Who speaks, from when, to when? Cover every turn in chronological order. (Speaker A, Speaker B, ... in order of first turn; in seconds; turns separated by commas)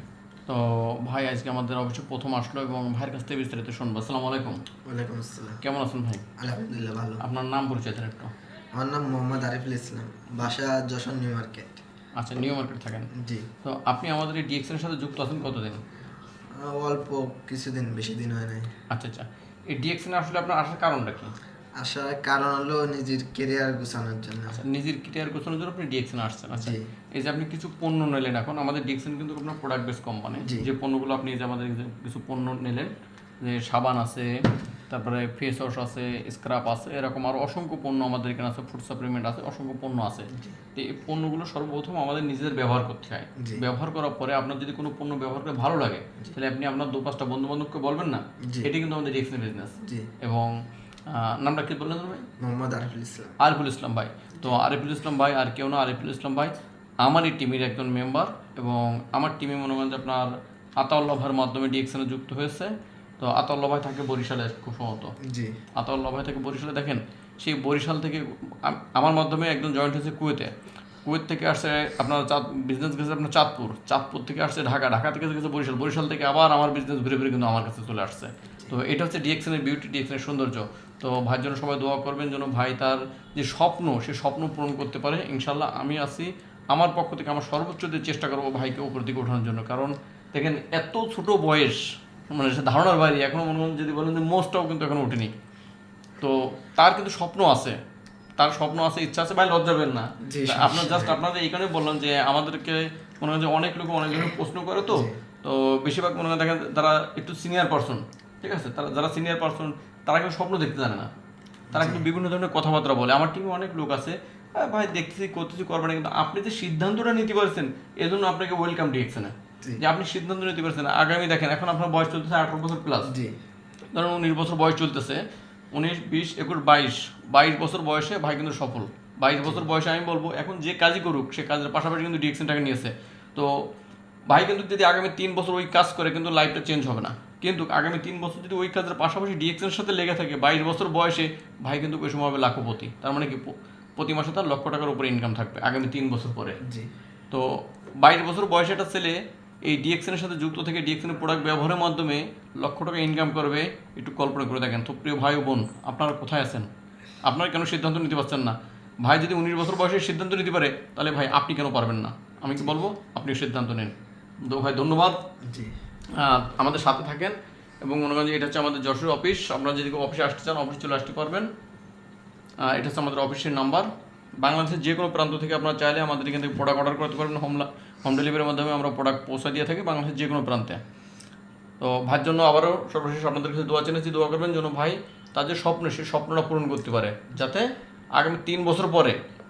Speaker A: 0.5-4.6, Speaker B: 4.8-5.6, Speaker A: 5.6-6.3, Speaker B: 6.4-7.2, Speaker A: 7.2-8.3, Speaker B: 8.7-11.8, Speaker A: 12.2-13.1, Speaker B: 13.1-13.5, Speaker A: 13.6-15.8, Speaker B: 16.5-18.7, Speaker A: 18.9-21.3, Speaker B: 21.8-24.6, Speaker A: 24.5-50.5, Speaker B: 26.5-26.9, Speaker B: 30.4-30.7, Speaker B: 40.3-40.6, Speaker B: 43.4-43.6, Speaker B: 48.4-48.7, Speaker B: 49.8-50.1, Speaker A: 51.1-52.3, Speaker B: 52.4-53.4, Speaker A: 53.4-56.5, Speaker A: 57.0-65.2, Speaker B: 65.2-65.6, Speaker A: 65.8-70.5, Speaker A: 71.0-95.3, Speaker A: 96.2-97.8, Speaker A: 98.4-111.1, Speaker B: 100.2-101.2, Speaker B: 104.9-105.2, Speaker B: 111.7-112.1, Speaker A: 111.7-123.1, Speaker B: 123.1-123.4, Speaker A: 123.9-133.7, Speaker A: 134.3-146.6, Speaker B: 146.6-146.9, Speaker A: 147.3-156.7, Speaker A: 157.2-165.2, Speaker B: 162.5-162.8, Speaker B: 165.4-165.8, Speaker A: 166.2-171.5, Speaker A: 172.6-173.9, Speaker A: 174.4-180.8, Speaker A: 181.8-189.2